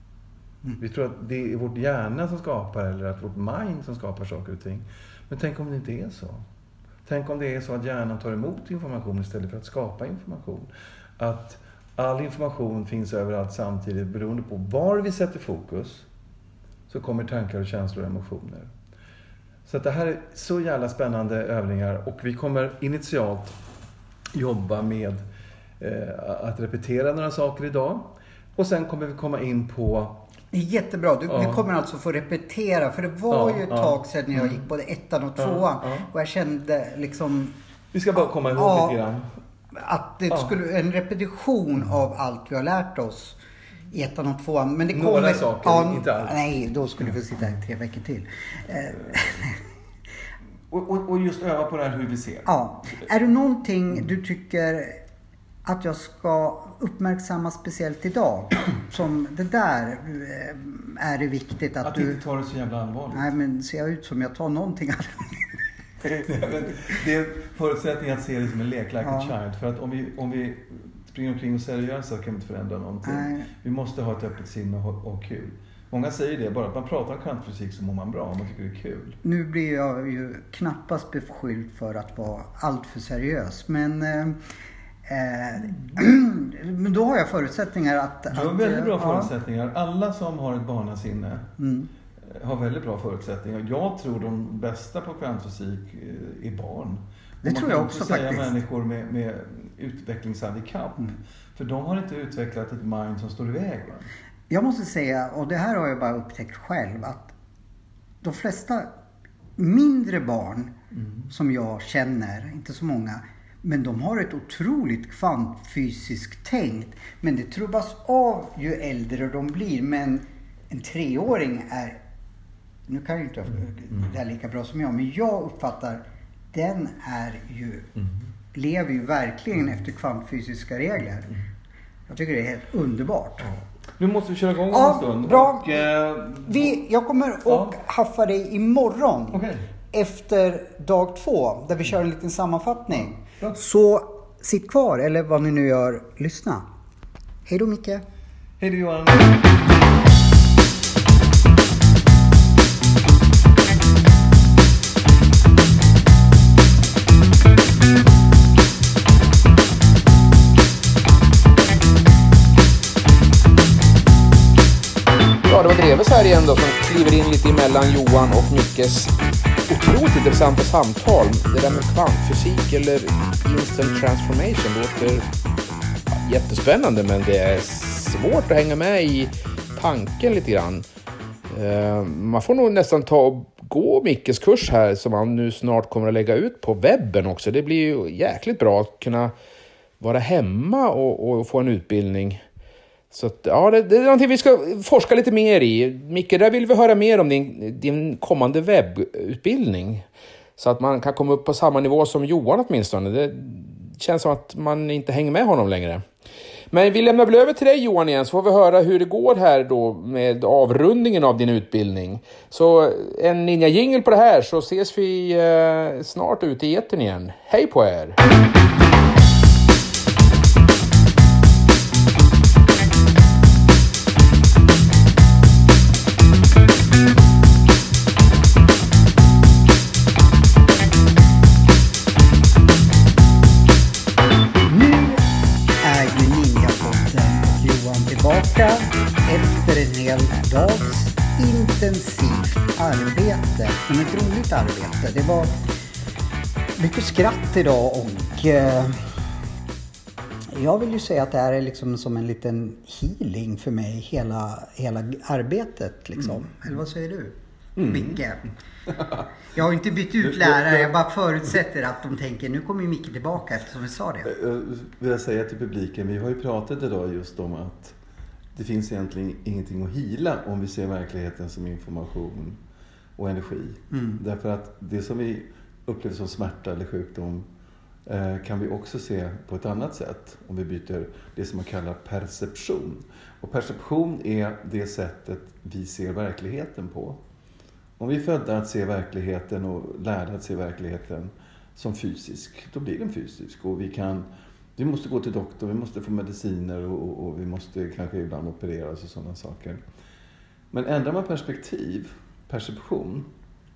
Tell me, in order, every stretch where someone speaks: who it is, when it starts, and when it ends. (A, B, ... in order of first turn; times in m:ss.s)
0:00.8-0:06.4 A
0:07.0-0:16.1 A
0:16.9-0:18.7 A
0:19.7-0:23.6 A
0:24.3-0:25.2 A
0:25.8-0:30.2 A
0:30.5-0:37.6 B
0:31.3-0:31.7 A
0:33.3-0:34.6 A
0:35.4-0:36.1 A
0:37.9-0:39.3 A
0:38.5-0:39.0 B
0:39.7-0:43.4 B
0:43.9-0:49.6 B
0:44.9-0:46.4 A
0:50.7-0:52.5 A
0:52.5-0:55.0 B
0:55.6-1:02.2 B
1:01.8-1:03.3 A
1:03.1-1:05.6 B
1:06.2-1:19.2 A
1:09.0-1:09.3 B
1:13.0-1:13.5 B
1:19.2-1:24.4 B
1:25.1-1:29.3 B
1:28.3-1:31.5 A
1:31.6-1:31.9 B
1:32.2-1:44.1 A
1:37.4-1:38.5 B
1:44.5-1:47.3 B
1:48.2-1:48.9 B
1:49.6-1:50.7 B
1:51.3-2:02.0 B
2:02.9-2:07.9 B
2:08.5-2:11.4 B
2:12.1-2:13.5 B
2:14.0-2:16.7 A
2:14.7-2:15.9 B
2:16.4-2:26.7 B
2:17.5-2:17.8 A
2:19.3-2:19.6 A
2:27.5-2:28.0 B
2:28.6-2:29.5 A
2:45.5-2:49.1 C
2:49.7-2:55.3 C
2:56.2-3:00.8 C
3:01.5-3:09.3 C
3:10.0-3:12.4 C
3:13.1-3:20.1 C
3:20.6-3:26.0 C
3:26.7-3:38.2 C
3:54.6-3:55.3 B
3:55.8-4:05.6 B
4:06.8-4:09.2 B
4:10.5-4:18.5 B
4:17.8-4:18.2 A
4:19.5-4:24.3 B
4:20.2-4:20.9 A
4:24.2-4:28.0 A
4:28.5-4:32.6 A
4:33.2-4:37.5 A
4:33.9-4:34.2 B
4:38.0-4:47.2 A
4:48.0-4:59.8 A
5:00.7-5:03.3 A